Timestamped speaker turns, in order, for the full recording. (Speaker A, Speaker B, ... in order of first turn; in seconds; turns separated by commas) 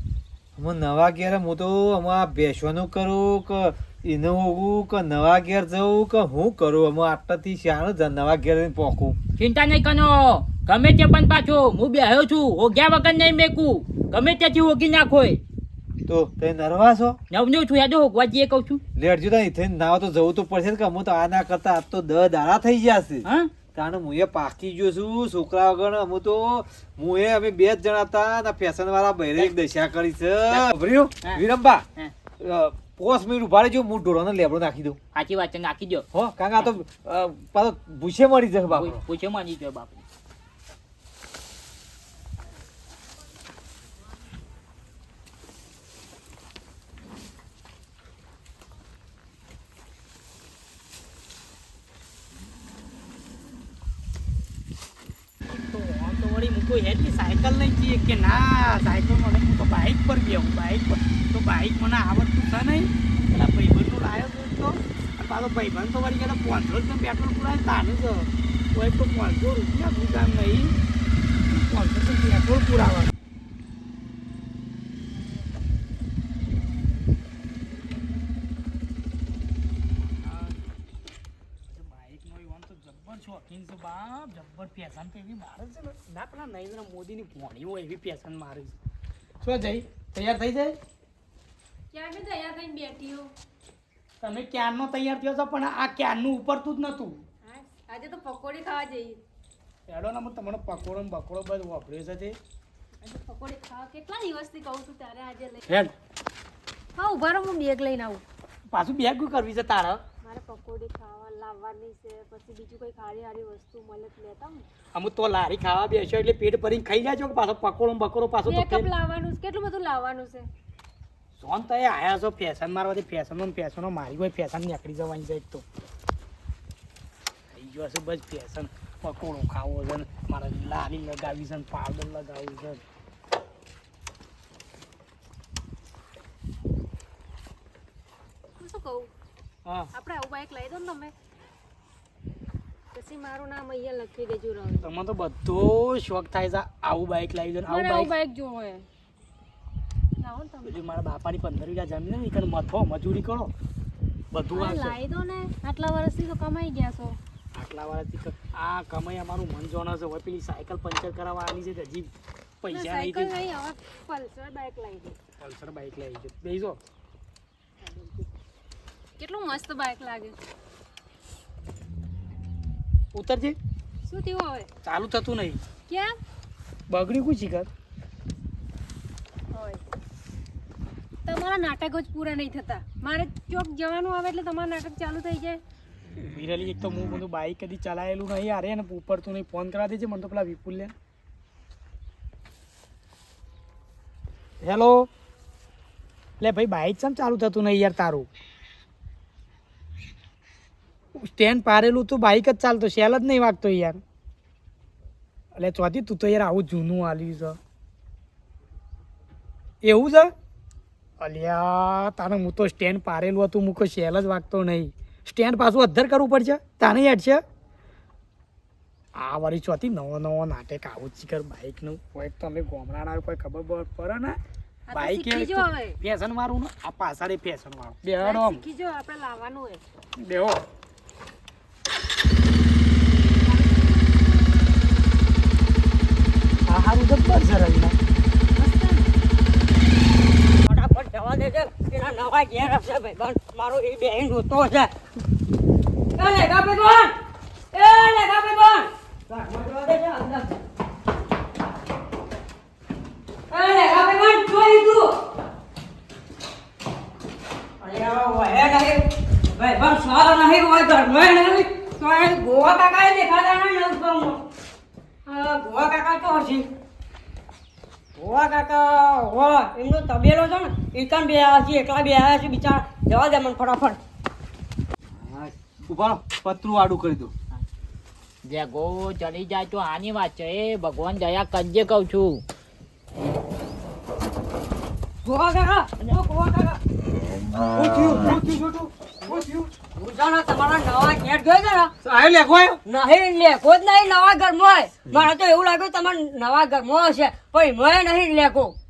Speaker A: 0.6-9.2, Speaker B: 9.4-15.4, Speaker A: 16.1-17.2, Speaker B: 17.3-18.8, Speaker A: 18.9-31.8, Speaker B: 23.2-23.5, Speaker A: 32.4-35.0, Speaker B: 35.1-36.0, Speaker A: 36.1-39.0, Speaker B: 38.7-40.0, Speaker C: 55.4-70.7, Speaker C: 71.5-73.1, Speaker C: 80.0-80.6, Speaker C: 81.7-88.8, Speaker C: 89.4-90.8, Speaker D: 91.9-93.3, Speaker C: 94.2-97.2, Speaker D: 97.4-99.2, Speaker C: 99.9-102.4, Speaker D: 103.0-105.6, Speaker C: 105.7-105.9, Speaker D: 107.0-108.2, Speaker C: 108.7-110.0, Speaker D: 110.2-114.6, Speaker C: 114.9-118.9, Speaker D: 118.5-120.5, Speaker C: 121.3-125.6, Speaker C: 127.5-132.8, Speaker D: 138.6-139.1, Speaker D: 139.9-141.1, Speaker D: 142.9-144.9, Speaker C: 144.8-148.1, Speaker D: 147.7-148.8, Speaker D: 150.2-150.8, Speaker C: 150.6-153.5, Speaker C: 154.3-155.0, Speaker D: 154.5-157.2, Speaker C: 157.5-162.1, Speaker C: 162.6-163.3, Speaker D: 162.7-165.2, Speaker C: 165.4-166.8, Speaker D: 167.8-168.2, Speaker D: 169.2-170.3, Speaker C: 173.1-173.6, Speaker D: 174.0-174.7, Speaker C: 174.8-175.6, Speaker D: 175.9-176.1, Speaker C: 176.9-177.7, Speaker D: 179.5-179.8, Speaker D: 181.2-185.6, Speaker C: 186.1-190.9, Speaker C: 194.6-195.1, Speaker C: 196.4-198.3, Speaker C: 201.2-204.0, Speaker C: 205.5-207.6, Speaker C: 209.8-210.3, Speaker C: 211.2-217.4, Speaker C: 219.2-224.4, Speaker D: 224.9-226.0, Speaker C: 224.9-228.6, Speaker D: 228.2-229.8, Speaker C: 230.2-230.6, Speaker D: 233.2-234.2, Speaker C: 236.7-238.0, Speaker D: 238.5-239.1, Speaker E: 240.6-244.9, Speaker E: 246.2-247.1, Speaker E: 247.7-250.4, Speaker E: 253.5-255.1, Speaker E: 257.8-259.0, Speaker E: 259.6-264.4, Speaker E: 265.3-266.6, Speaker E: 268.2-274.0, Speaker A: 275.2-277.3, Speaker B: 278.4-282.4, Speaker E: 285.2-286.7, Speaker C: 287.7-288.9, Speaker E: 290.0-291.9, Speaker C: 292.0-292.8, Speaker E: 292.9-298.7